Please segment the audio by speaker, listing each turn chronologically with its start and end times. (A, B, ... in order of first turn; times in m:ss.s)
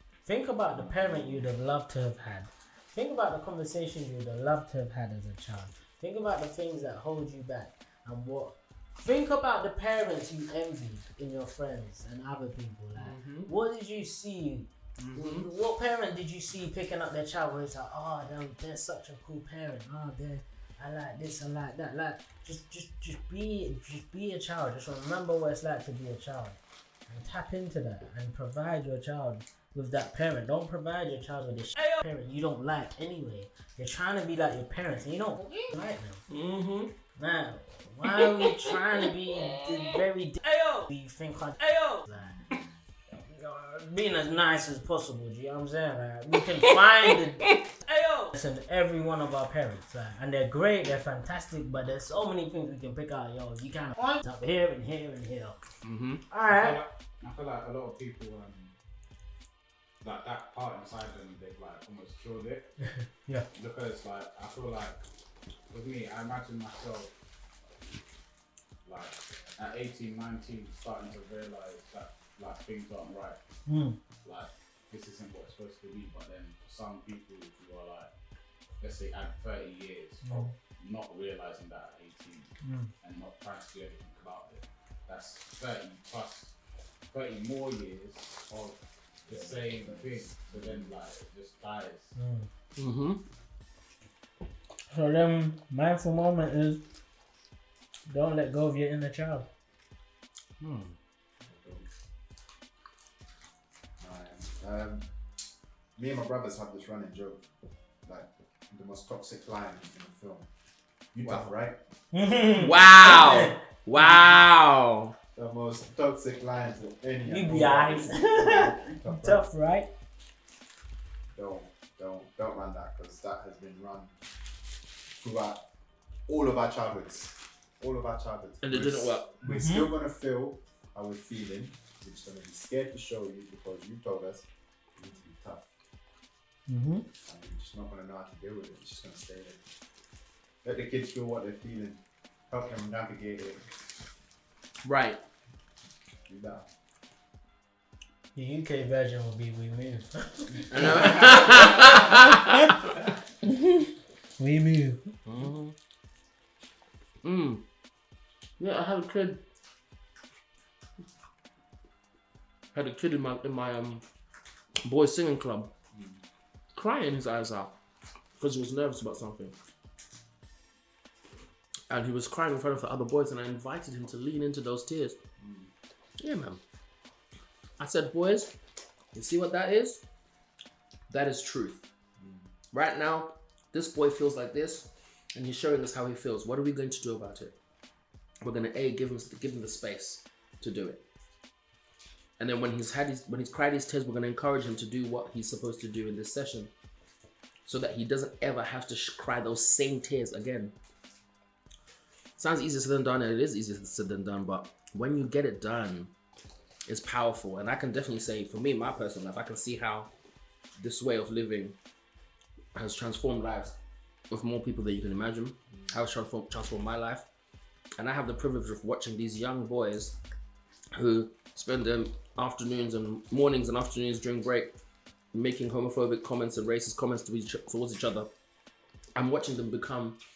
0:00.2-0:36.2 A
0:00.9-0:01.3 B
0:12.9-0:13.5 C
0:15.0-0:15.5 C
0:36.3-0:36.9 C
0:37.2-0:42.4 A
0:38.0-0:39.9 C
0:43.1-0:55.6 A
0:46.6-0:47.6 C
0:55.8-0:56.2 C
0:56.3-0:56.8 A
0:56.5-0:58.7 D
1:00.0-1:02.7 D
1:03.0-1:03.5 A
1:03.5-1:05.0 D
1:05.7-1:07.1 D
1:08.8-1:13.4 D
1:13.6-1:14.0 A
1:14.2-1:18.1 D
1:18.8-1:26.5 D
1:20.2-1:20.5 A
1:22.6-1:22.9 A
1:27.1-1:32.1 D
1:29.3-1:30.9 B
1:32.2-1:32.5 A
1:32.8-1:33.2 C
1:34.9-1:36.8 A
1:38.1-1:39.5 A
1:41.4-1:41.9 B
1:44.0-1:45.0 B
1:46.0-1:47.4 B
1:48.0-1:50.5 B
1:51.2-1:51.8 B
1:52.1-1:54.3 A
1:52.5-1:55.1 C
1:55.3-1:59.4 B
1:57.2-1:59.9 A
2:01.3-2:04.1 B
2:05.1-2:05.6 B
2:06.3-2:15.7 B
2:08.6-2:09.3 C
2:09.4-2:09.9 A
2:16.7-2:17.1 A
2:17.2-2:19.6 B
2:20.6-2:23.6 B
2:24.8-2:25.2 C
2:26.3-2:26.6 B
2:28.3-2:32.1 A
2:30.7-2:32.9 C
2:33.4-2:33.8 A
2:34.4-2:35.1 A
2:35.2-2:35.8 C
2:37.2-2:37.6 C
2:38.6-2:39.4 C
2:42.7-2:44.0 C
2:44.8-2:45.7 C
2:45.9-2:46.2 B
2:46.7-2:47.8 C
2:48.4-2:49.6 C
2:51.9-2:55.2 C
2:55.4-2:55.7 B
2:56.2-2:56.6 C
2:57.8-2:58.5 C
2:59.1-3:00.0 C
3:01.1-3:01.8 C
3:02.2-3:02.4 B
3:02.7-3:07.6 C
3:08.4-3:11.0 C
3:12.4-3:16.7 C
3:17.6-3:20.7 C
3:22.4-3:26.1 C
3:26.8-3:30.1 C
3:30.8-3:31.8 C
3:32.7-3:33.8 C
3:34.3-3:37.2 C
3:38.0-3:40.2 C
3:40.9-3:44.7 C
3:45.3-3:48.3 C
3:49.2-3:50.2 C